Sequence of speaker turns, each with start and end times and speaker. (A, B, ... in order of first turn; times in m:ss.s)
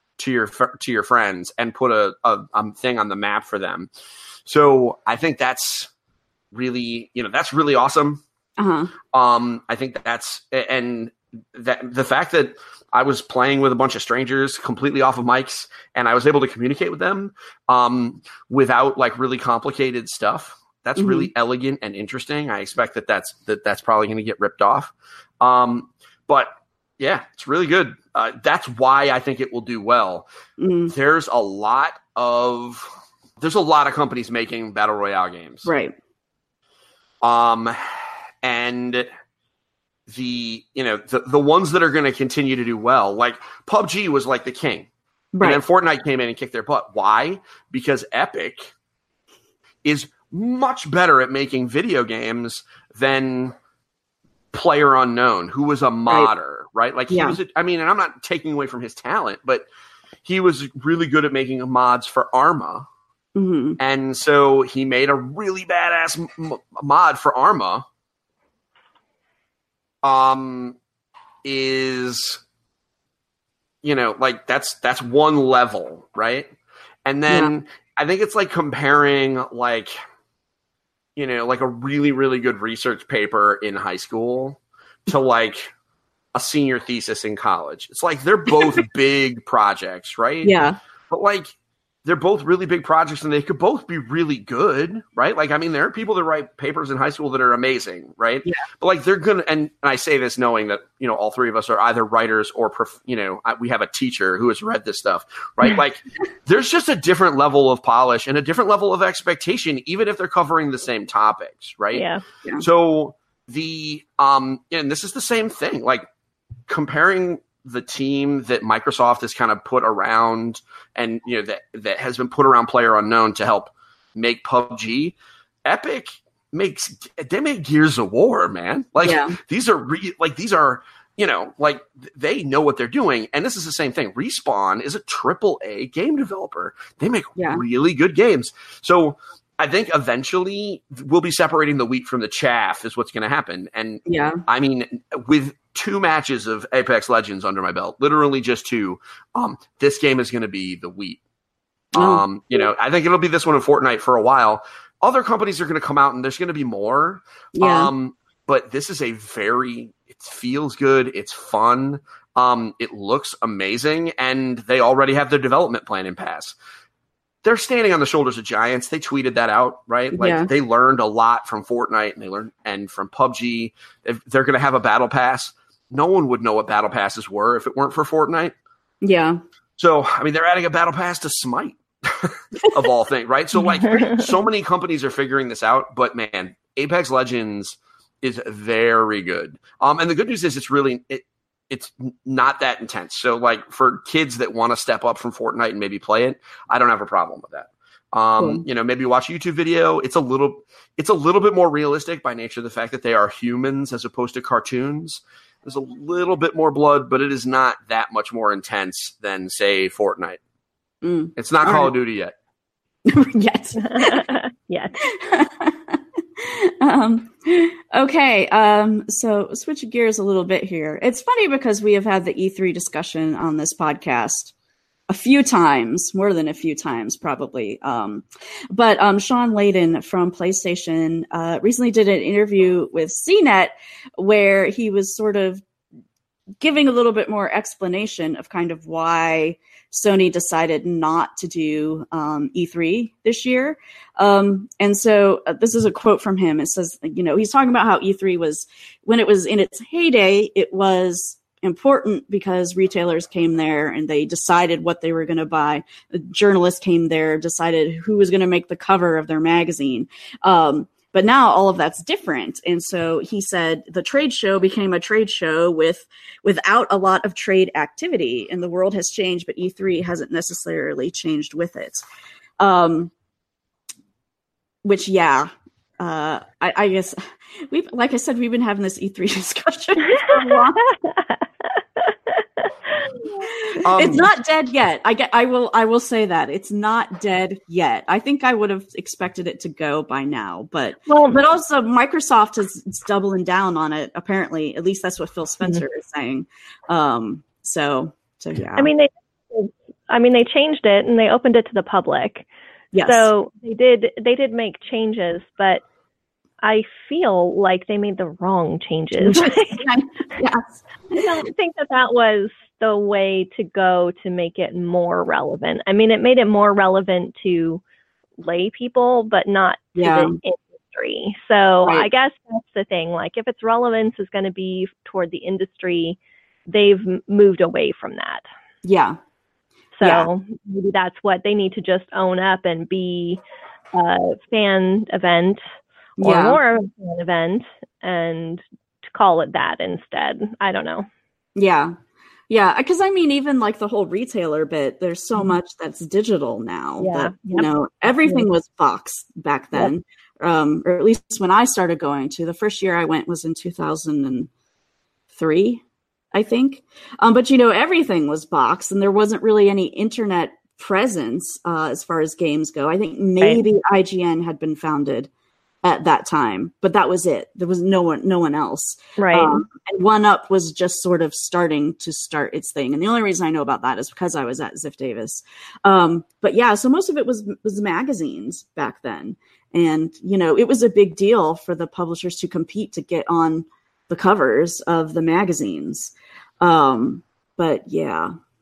0:00.2-0:03.9 A
0:04.5-0:05.9 A
0:06.5-0:08.2 A
0:08.6-0:08.9 B
0:09.1-0:30.3 A
0:21.0-0:21.3 B
0:30.6-0:30.9 B
0:30.9-0:35.7 A
0:35.6-0:36.0 B
0:37.2-0:39.1 A
0:40.1-0:44.9 A
0:45.4-0:45.6 B
0:45.4-0:48.7 A
0:49.8-0:53.6 A
0:54.5-0:59.6 A
0:57.1-0:57.4 B
1:00.2-1:02.9 A
1:03.4-1:03.8 B
1:03.8-1:07.8 A
1:10.0-1:10.8 A
1:11.4-1:12.4 A
1:13.8-1:16.5 A
1:17.0-1:20.0 A
1:21.2-1:25.7 A
1:26.4-1:30.6 A
1:30.4-1:30.8 B
1:31.1-1:31.5 A
1:32.0-1:52.1 A
1:51.9-1:52.2 C
1:52.6-1:56.1 A
1:56.7-2:31.2 A
2:09.0-2:09.4 B
2:17.4-2:17.6 B
2:24.1-2:24.4 B
2:31.9-2:46.6 A
2:32.0-2:32.2 B
2:37.6-2:37.9 B
2:47.4-2:58.5 A
2:50.1-2:50.5 B
2:59.0-2:59.4 B
2:59.8-3:30.4 A
3:18.4-3:18.6 B
3:31.0-3:31.9 B
3:31.4-3:32.3 A
3:33.1-3:34.2 B
3:33.8-3:35.0 C
3:35.0-3:44.5 B
3:45.1-3:55.6 B
3:56.6-4:32.0 B
4:32.6-4:33.1 B
4:34.8-4:40.8 B
4:40.1-4:43.1 C
4:43.6-4:58.9 B
4:43.8-4:44.3 A
4:51.1-4:51.4 C
4:58.8-5:02.5 C
5:02.9-5:03.3 B
5:03.0-5:05.8 C
5:06.6-5:09.8 C
5:09.2-5:11.2 B
5:11.2-5:17.8 C
5:18.4-5:28.4 C
5:20.0-5:20.4 B
5:28.8-5:29.2 B
5:30.0-5:33.4 C
5:30.0-5:30.3 B
5:33.9-5:35.6 C
5:36.2-5:36.6 B
5:36.2-5:38.6 C
5:39.1-5:41.1 C
5:41.6-5:42.0 B
5:42.5-5:54.5 B
5:47.0-5:47.7 C
5:48.2-5:48.5 C
5:55.3-5:55.8 B
5:56.3-6:05.3 B
6:05.8-6:28.3 B
6:09.2-6:09.6 C